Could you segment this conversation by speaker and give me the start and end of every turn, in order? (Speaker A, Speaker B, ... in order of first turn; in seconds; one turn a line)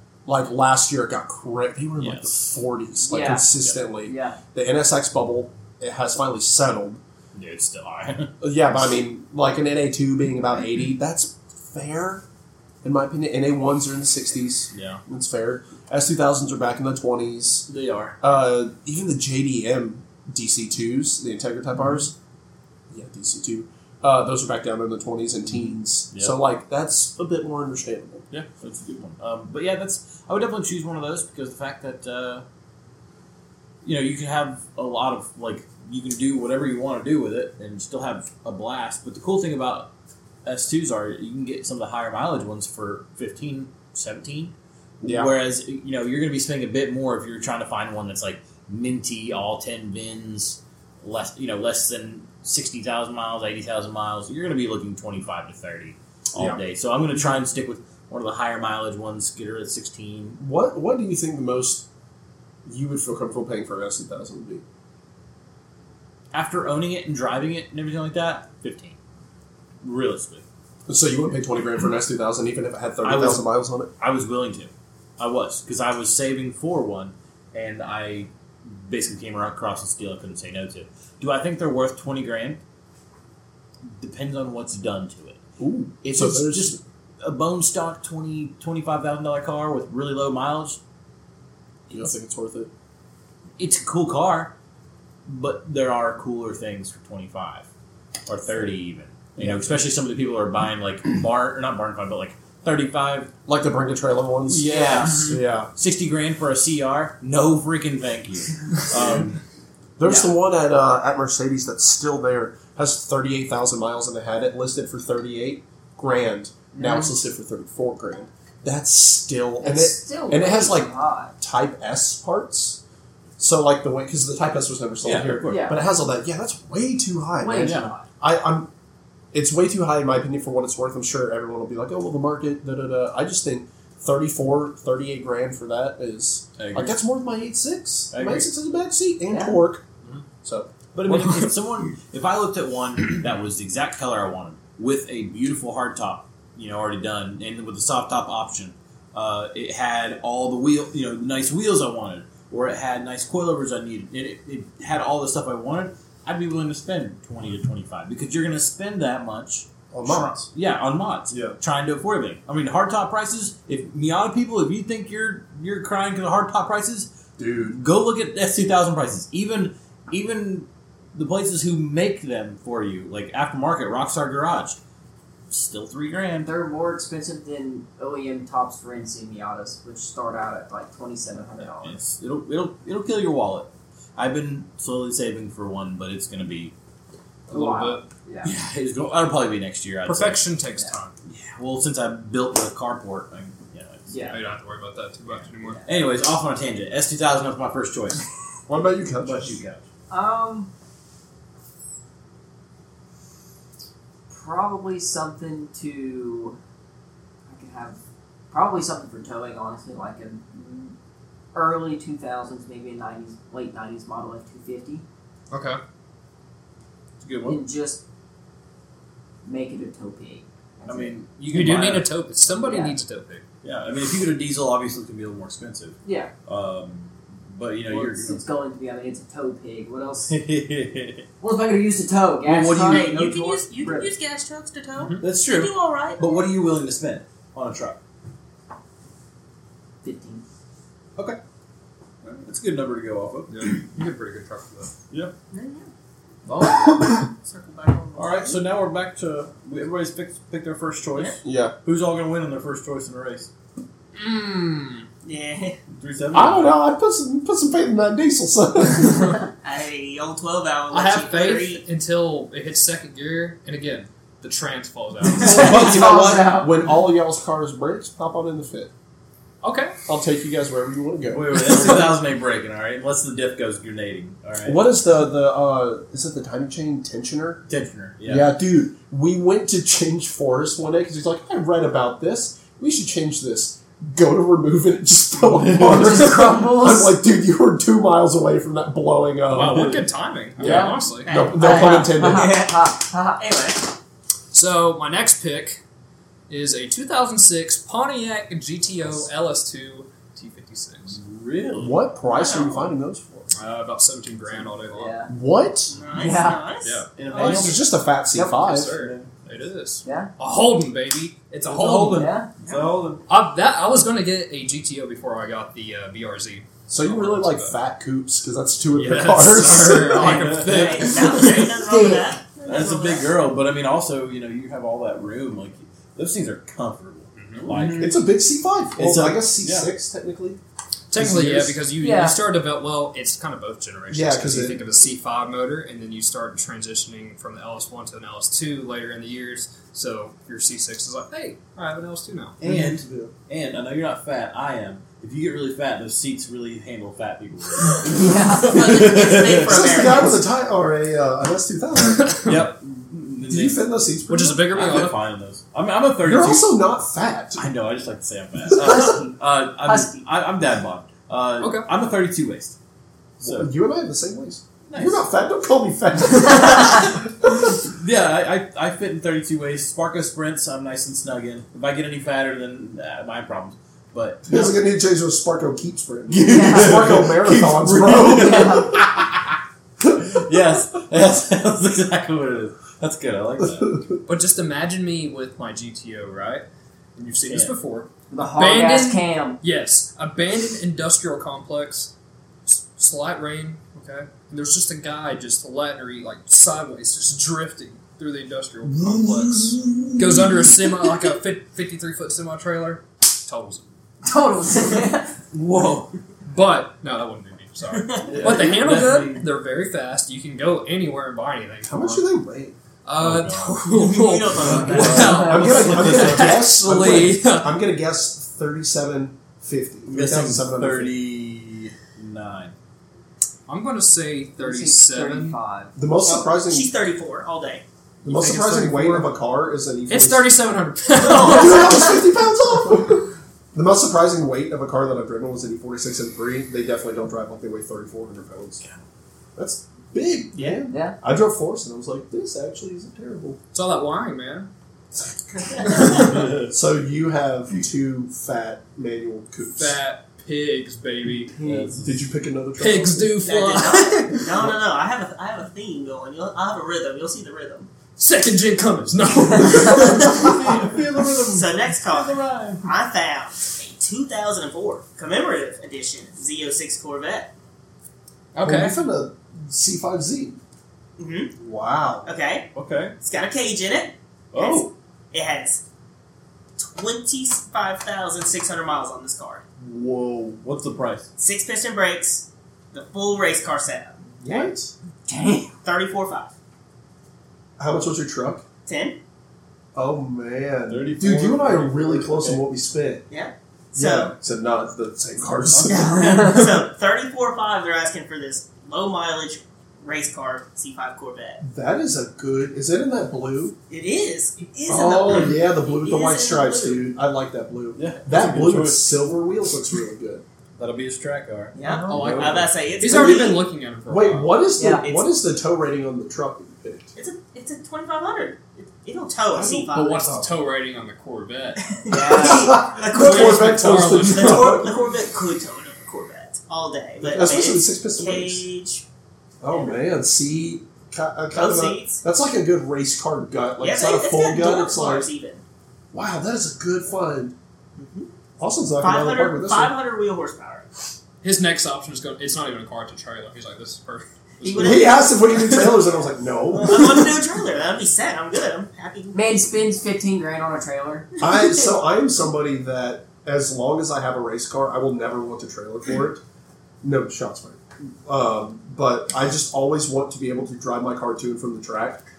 Speaker A: 0.3-7.0
Speaker B: 2.0-2.4
Speaker C: 3.1-3.5
Speaker C: 4.0-4.4
Speaker B: 7.3-8.3
Speaker A: 8.4-12.2
Speaker A: 12.8-17.7
Speaker B: 14.7-15.0
Speaker B: 17.7-18.2
Speaker A: 18.2-22.1
Speaker A: 22.9-28.2
Speaker B: 28.3-32.5
Speaker B: 33.8-39.9
Speaker B: 40.5-60.4
Speaker A: 45.0-45.3
Speaker A: 60.4-61.9
Speaker A: 62.7-64.6
Speaker B: 66.3-69.0
Speaker B: 69.8-70.4
Speaker A: 70.9-73.9
Speaker B: 73.0-73.5
Speaker B: 74.0-82.6
Speaker B: 83.9-85.4
Speaker A: 85.6-86.8
Speaker B: 86.0-90.8
Speaker A: 91.9-92.7
Speaker B: 93.6-94.5
Speaker B: 95.3-97.7
Speaker B: 98.3-103.3
Speaker A: 99.4-99.8
Speaker A: 103.5-105.7
Speaker B: 104.5-109.4
Speaker A: 110.0-122.8
Speaker C: 116.8-117.1
Speaker C: 119.6-121.3
Speaker A: 123.4-128.7
Speaker B: 125.0-125.7
Speaker C: 125.5-125.8
Speaker C: 127.4-128.1
Speaker B: 127.6-127.9
Speaker A: 129.3-139.8
Speaker B: 136.6-137.0
Speaker B: 138.1-138.5
Speaker C: 139.3-139.6
Speaker A: 140.4-140.7
Speaker B: 140.9-167.1
Speaker D: 141.1-141.4
Speaker A: 159.9-160.5
Speaker A: 161.3-161.6
Speaker A: 167.4-167.8
Speaker B: 167.7-174.8
Speaker B: 175.5-176.5
Speaker C: 176.4-182.0
Speaker B: 181.8-186.7
Speaker D: 187.5-188.1
Speaker C: 187.5-188.5
Speaker B: 188.4-190.4
Speaker D: 190.1-191.1
Speaker B: 191.2-194.4
Speaker C: 194.1-194.4
Speaker D: 194.3-195.8
Speaker B: 195.3-198.2
Speaker A: 198.7-199.6
Speaker B: 199.2-199.8
Speaker C: 200.1-200.7
Speaker C: 204.3-206.6
Speaker C: 207.5-208.0
Speaker C: 208.5-210.9
Speaker C: 211.5-215.0
Speaker D: 215.5-215.8
Speaker B: 217.2-217.6
Speaker C: 217.4-218.0
Speaker C: 219.4-221.1
Speaker B: 220.9-222.1
Speaker D: 221.5-223.4
Speaker C: 222.6-223.0
Speaker B: 223.6-228.4
Speaker C: 226.1-226.3
Speaker C: 227.9-230.3
Speaker B: 230.3-231.3
Speaker C: 231.4-234.1
Speaker B: 232.4-233.3
Speaker E: 232.8-236.2
Speaker D: 235.0-235.2
Speaker B: 235.2-238.0
Speaker C: 240.0-240.4
Speaker B: 242.2-243.9
Speaker D: 243.5-244.9
Speaker E: 245.5-245.9
Speaker D: 246.5-247.3
Speaker E: 247.4-248.6
Speaker B: 248.2-253.5
Speaker A: 251.4-251.7
Speaker D: 254.2-255.1
Speaker E: 255.2-255.8
Speaker B: 255.9-256.8
Speaker A: 256.3-259.4
Speaker E: 259.6-261.8
Speaker D: 260.9-265.9
Speaker C: 265.3-266.8
Speaker A: 265.4-268.9
Speaker D: 269.6-270.0
Speaker A: 270.1-272.1
Speaker B: 271.3-274.8
Speaker A: 274.6-277.6
Speaker B: 277.7-278.6
Speaker A: 278.2-290.0
Speaker B: 285.4-286.3
Speaker C: 285.8-287.2
Speaker D: 289.5-291.3
Speaker B: 289.6-290.0
Speaker A: 290.6-292.6
Speaker C: 290.6-293.4
Speaker E: 291.2-293.8
Speaker D: 294.5-295.8
Speaker D: 296.5-301.2
Speaker B: 301.1-302.0
Speaker A: 301.8-303.5
Speaker E: 302.3-302.9
Speaker D: 303.5-305.2
Speaker C: 304.9-305.3
Speaker A: 305.3-305.9
Speaker E: 305.9-307.8
Speaker C: 306.1-306.7
Speaker D: 306.8-307.8
Speaker B: 307.2-307.9
Speaker A: 307.4-309.0
Speaker D: 308.4-312.4
Speaker B: 308.8-309.4
Speaker C: 310.1-310.3
Speaker B: 311.6-313.2
Speaker C: 312.1-312.5
Speaker E: 312.6-312.9
Speaker D: 313.3-317.8
Speaker A: 316.9-320.6
Speaker D: 318.9-321.7
Speaker B: 319.4-321.5
Speaker E: 320.6-323.4
Speaker C: 321.8-322.4
Speaker B: 322.6-328.2
Speaker D: 327.4-327.7
Speaker C: 327.7-328.1
Speaker A: 327.9-330.6
Speaker B: 329.0-329.9
Speaker D: 331.1-342.6
Speaker A: 331.1-331.8
Speaker C: 332.0-332.4
Speaker A: 334.1-334.8
Speaker B: 342.6-350.2
Speaker A: 342.6-343.3
Speaker C: 348.1-349.0
Speaker E: 348.7-350.4
Speaker A: 349.5-352.5
Speaker D: 352.2-352.6
Speaker B: 352.4-353.8
Speaker A: 353.5-354.8
Speaker D: 354.3-355.2
Speaker B: 354.7-356.8
Speaker A: 356.2-357.7
Speaker B: 357.6-362.8
Speaker C: 358.8-360.2
Speaker A: 358.8-359.2
Speaker D: 361.6-361.9
Speaker A: 363.4-367.6
Speaker B: 363.4-363.7
Speaker B: 364.9-365.3
Speaker B: 366.5-367.0
Speaker B: 367.8-374.7
Speaker A: 374.5-379.0
Speaker B: 376.3-379.5
Speaker C: 376.5-377.1
Speaker C: 378.1-378.9
Speaker B: 380.1-384.0
Speaker D: 384.3-386.6
Speaker D: 387.2-392.1
Speaker B: 387.5-387.7
Speaker C: 388.3-389.6
Speaker D: 392.7-403.8
Speaker B: 398.9-400.5
Speaker C: 404.2-405.3
Speaker B: 405.5-406.1
Speaker D: 406.5-412.3
Speaker E: 407.9-408.5
Speaker B: 408.2-409.5
Speaker A: 411.8-412.8
Speaker D: 413.1-417.7
Speaker B: 413.2-413.8
Speaker E: 413.9-415.7
Speaker B: 414.6-416.5
Speaker A: 414.9-421.2
Speaker C: 415.2-415.7
Speaker B: 420.1-422.7
Speaker D: 423.7-425.6
Speaker C: 424.6-425.9
Speaker A: 426.0-426.9
Speaker E: 426.2-427.8
Speaker D: 428.2-429.3
Speaker A: 428.2-430.6
Speaker D: 430.1-432.1
Speaker E: 431.2-432.2
Speaker A: 431.3-438.8
Speaker A: 439.6-443.6
Speaker E: 440.6-440.8
Speaker C: 440.9-441.2
Speaker D: 443.7-444.7
Speaker A: 445.1-450.0
Speaker E: 445.7-446.4
Speaker B: 446.2-446.7
Speaker D: 449.8-451.6
Speaker C: 451.6-451.9
Speaker B: 451.6-452.2
Speaker A: 452.0-453.5
Speaker D: 452.8-454.6
Speaker E: 453.4-457.9
Speaker D: 458.2-461.0
Speaker B: 459.9-462.9
Speaker E: 461.5-467.5
Speaker D: 468.5-469.0
Speaker A: 468.6-470.6
Speaker E: 471.2-471.5
Speaker A: 471.6-472.3
Speaker E: 472.2-475.8
Speaker B: 472.8-473.2
Speaker B: 474.5-474.9
Speaker E: 476.8-479.6
Speaker A: 479.8-480.6
Speaker B: 480.6-481.3
Speaker E: 481.4-484.7
Speaker A: 484.4-484.9
Speaker C: 485.3-485.7
Speaker E: 485.8-486.5
Speaker A: 487.8-488.6
Speaker E: 488.9-489.2
Speaker A: 489.9-493.3
Speaker B: 490.9-492.6
Speaker E: 493.3-494.3
Speaker A: 493.9-496.6
Speaker B: 495.7-496.1
Speaker E: 495.9-501.6
Speaker A: 501.6-503.8
Speaker E: 503.9-507.1
Speaker A: 504.9-510.4
Speaker B: 507.9-509.3
Speaker B: 510.8-512.7
Speaker E: 511.8-513.7
Speaker A: 511.8-517.1
Speaker D: 512.1-514.7
Speaker C: 514.8-515.1
Speaker E: 515.0-515.4
Speaker E: 517.2-520.2
Speaker A: 519.5-520.6
Speaker D: 519.9-521.9
Speaker E: 521.9-529.0
Speaker C: 522.1-522.8
Speaker A: 522.3-524.9
Speaker D: 523.1-524.8
Speaker A: 527.2-528.7
Speaker A: 529.6-535.3
Speaker E: 529.7-530.0
Speaker E: 531.5-532.2
Speaker E: 533.8-535.6
Speaker A: 536.1-537.5
Speaker E: 538.0-538.3
Speaker A: 538.6-540.0
Speaker E: 539.0-540.9
Speaker D: 541.4-545.1
Speaker E: 544.6-545.8
Speaker A: 544.8-547.4
Speaker E: 546.7-549.4
Speaker C: 549.3-551.3
Speaker A: 551.4-556.4
Speaker A: 557.0-562.2